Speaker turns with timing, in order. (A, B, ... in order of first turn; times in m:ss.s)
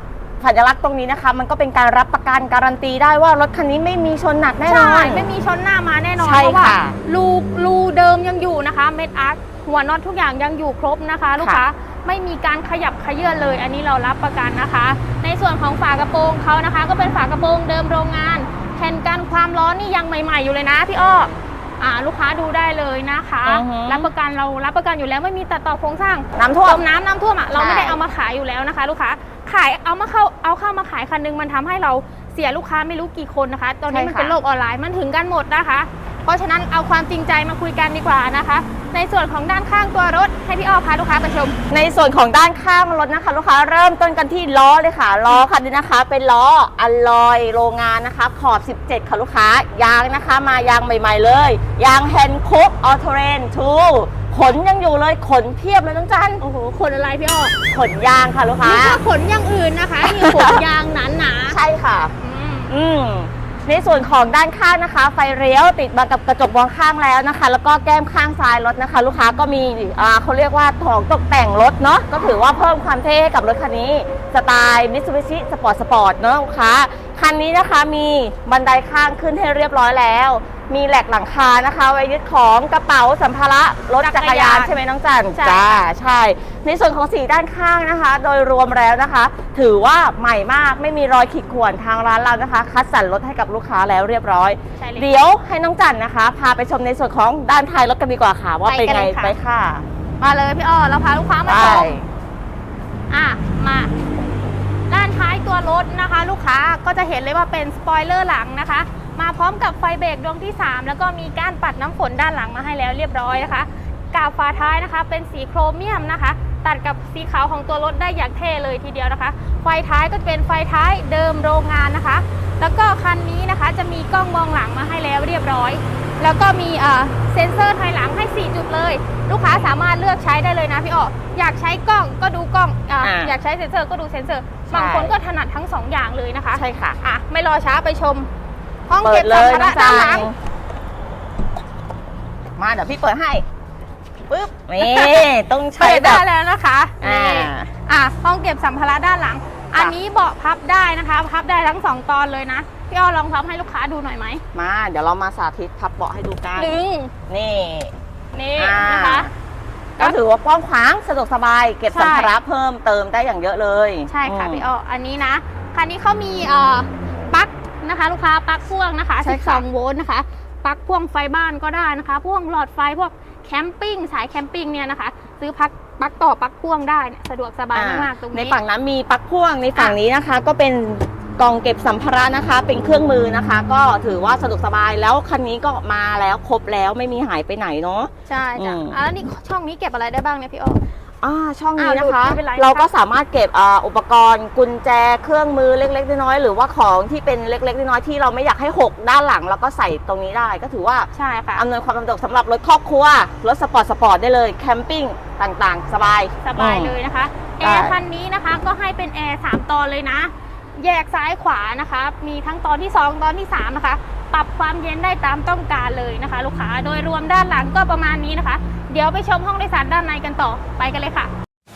0:00.4-0:05.3 A
0:04.6-0:41.6 B
0:06.2-0:07.0 A
0:23.4-0:24.1 A
0:26.4-0:26.8 A
0:27.5-0:28.0 A
0:33.9-0:34.4 A
0:41.7-0:56.4 A
0:56.4-0:57.6 B
0:57.7-0:59.0 A
0:58.6-1:01.6 B
1:00.0-1:00.6 A
1:01.5-1:02.1 A
1:02.2-1:02.7 B
1:02.7-1:39.8 A
1:24.0-1:24.7 B
1:25.3-1:25.6 B
1:34.8-1:35.2 B
1:38.7-1:39.3 B
1:40.2-1:41.9 B
1:41.5-1:42.1 A
1:43.1-1:43.9 B
1:44.9-2:18.3 B
2:09.5-2:09.7 A
2:13.0-2:13.4 A
2:14.7-2:15.1 A
2:16.5-2:17.0 A
2:18.9-2:20.3 B
2:19.0-2:20.4 A
2:22.6-2:23.4 A
2:24.3-2:26.2 A
2:24.8-2:34.4 B
2:27.0-2:27.7 A
2:34.5-2:37.9 A
2:36.6-2:37.1 B
2:38.3-2:39.3 B
2:38.6-2:39.3 A
2:40.0-2:44.6 A
2:41.9-2:42.3 B
2:44.1-2:58.6 B
2:49.2-2:49.6 A
2:57.7-3:09.0 A
3:08.3-3:10.8 B
3:11.2-3:27.0 A
3:11.8-3:12.9 B
3:21.1-3:21.6 B
3:26.4-3:41.3 B
3:27.6-3:28.0 A